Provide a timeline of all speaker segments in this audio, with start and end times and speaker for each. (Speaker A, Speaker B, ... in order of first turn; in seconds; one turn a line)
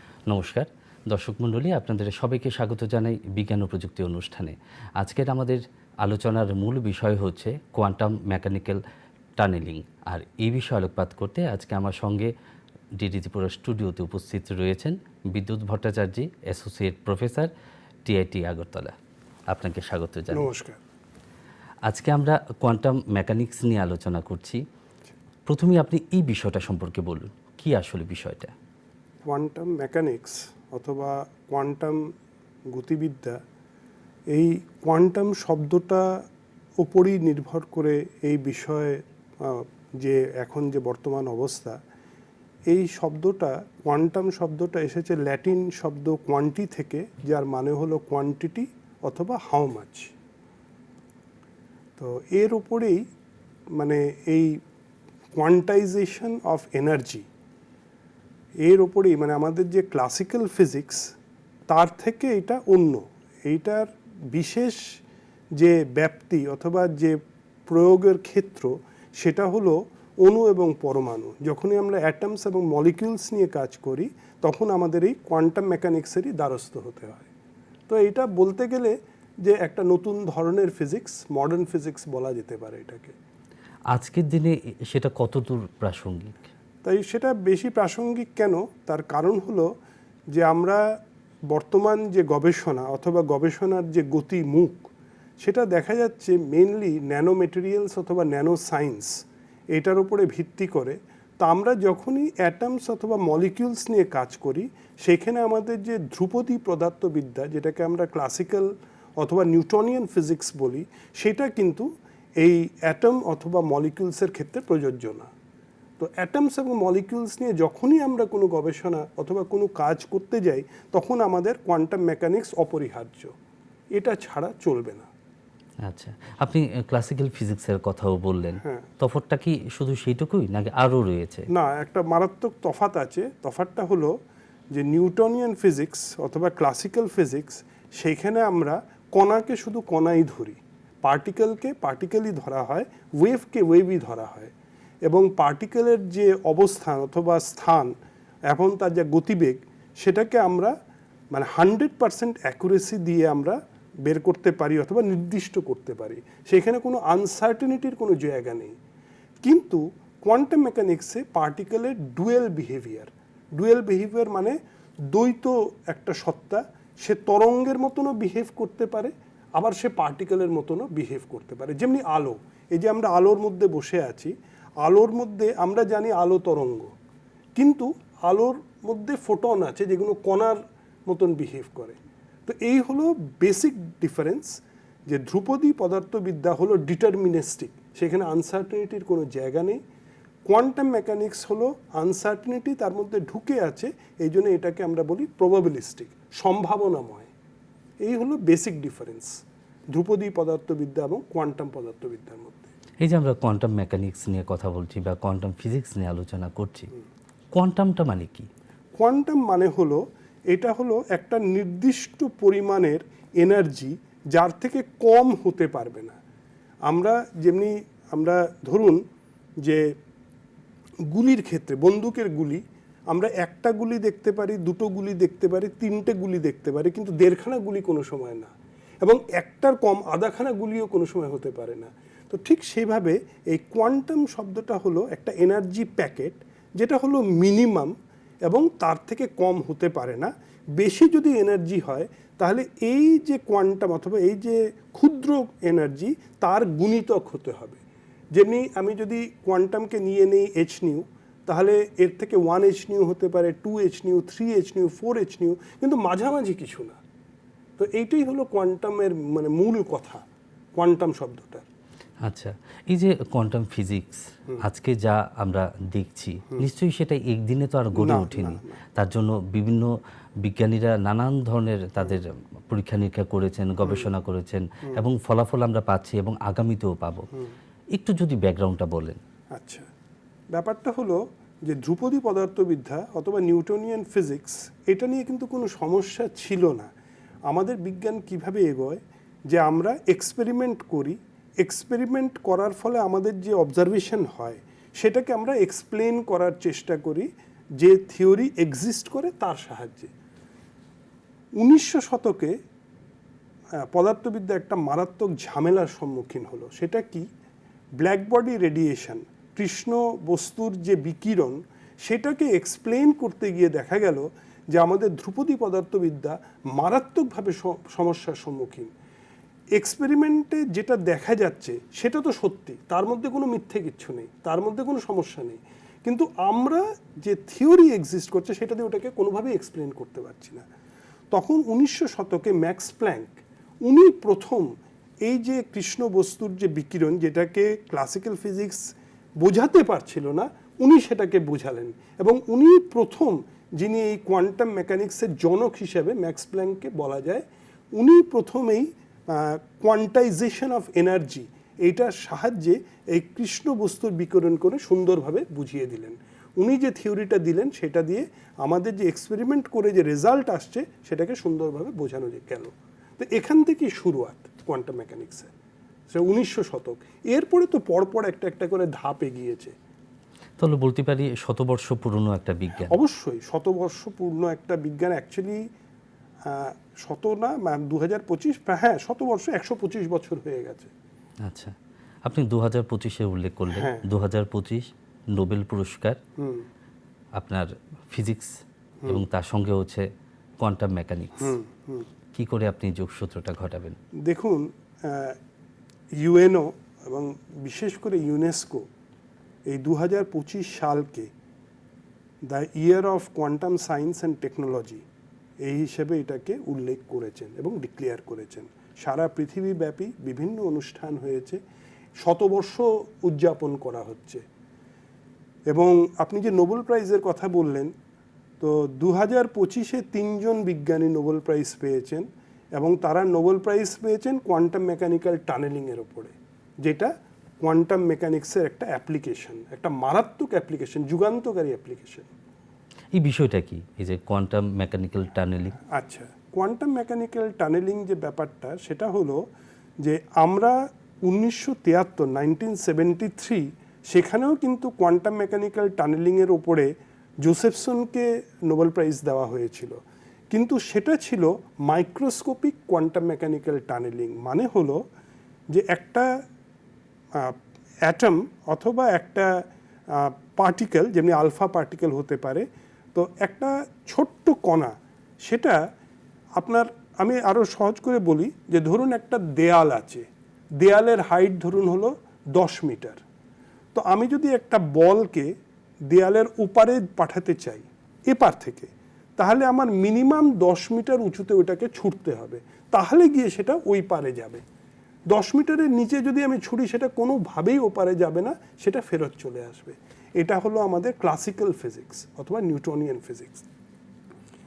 Speaker A: 0.3-8.8
Speaker A: 9.4-12.3
Speaker A: 13.0-17.5
Speaker A: 18.0-18.9
Speaker A: 19.5-20.5
Speaker B: 20.3-20.8
Speaker A: 21.8-24.6
Speaker A: 25.4-28.5
Speaker B: 29.2-32.1
Speaker B: 32.7-33.4
Speaker B: 34.3-36.2
Speaker B: 36.8-41.8
Speaker B: 42.7-50.1
Speaker B: 52.0-53.0
Speaker B: 53.7-54.6
Speaker B: 55.3-57.2
Speaker B: 58.6-61.1
Speaker B: 61.7-64.9
Speaker B: 65.6-77.3
Speaker B: 77.9-83.1
Speaker A: 83.9-86.3
Speaker B: 86.8-89.7
Speaker B: 90.3-90.8
Speaker B: 91.5-94.9
Speaker B: 95.4-99.2
Speaker B: 99.7-111.9
Speaker B: 112.4-115.3
Speaker B: 116.0-123.3
Speaker B: 124.0-125.1
Speaker A: 125.8-131.4
Speaker B: 131.5-134.1
Speaker B: 134.7-144.5
Speaker B: 145.1-147.9
Speaker B: 148.5-150.7
Speaker B: 151.3-158.7
Speaker B: 159.4-164.6
Speaker B: 165.1-176.9
Speaker B: 177.6-184.6
Speaker B: 185.1-189.8
Speaker B: 190.4-197.3
Speaker B: 198.0-199.3
Speaker B: 199.9-202.7
Speaker A: 203.0-206.9
Speaker A: 207.5-208.5
Speaker B: 209.0-216.2
Speaker B: 216.9-219.0
Speaker B: 221.1-228.5
Speaker B: 229.0-237.9
Speaker B: 238.4-247.8
Speaker B: 248.3-257.0
Speaker B: 257.8-260.2
Speaker B: 260.8-261.6
Speaker A: 262.2-269.9
Speaker B: 267.9-268.7
Speaker A: 270.4-277.3
Speaker B: 273.8-274.1
Speaker A: 277.9-279.2
Speaker B: 279.5-279.9
Speaker B: 280.5-286.9
Speaker B: 287.5-297.3
Speaker B: 297.8-300.1
Speaker B: 301.6-302.5
Speaker B: 303.9-307.3
Speaker B: 308.0-318.9
Speaker B: 319.8-330.6
Speaker B: 331.3-334.7
Speaker B: 335.2-338.8
Speaker B: 339.4-365.5
Speaker B: 366.1-369.7
Speaker A: 370.6-372.9
Speaker B: 372.9-375.7
Speaker B: 376.4-380.9
Speaker A: 381.4-386.2
Speaker B: 383.7-384.1
Speaker B: 386.4-386.6
Speaker A: 387.4-390.1
Speaker A: 390.6-391.5
Speaker B: 391.4-392.1
Speaker A: 392.3-394.0
Speaker B: 394.2-395.4
Speaker B: 396.2-398.9
Speaker B: 399.7-401.3
Speaker B: 402.4-405.0
Speaker B: 405.6-411.6
Speaker B: 412.2-414.4
Speaker B: 415.7-417.9
Speaker B: 418.6-432.3
Speaker A: 433.1-435.8
Speaker B: 435.9-439.4
Speaker B: 440.0-446.9
Speaker B: 447.4-450.0
Speaker B: 450.5-455.0
Speaker B: 455.7-456.3
Speaker B: 457.3-459.5
Speaker B: 460.1-465.8
Speaker B: 466.6-470.2
Speaker B: 470.8-473.2
Speaker B: 473.9-475.5
Speaker B: 476.1-484.6
Speaker B: 485.3-493.7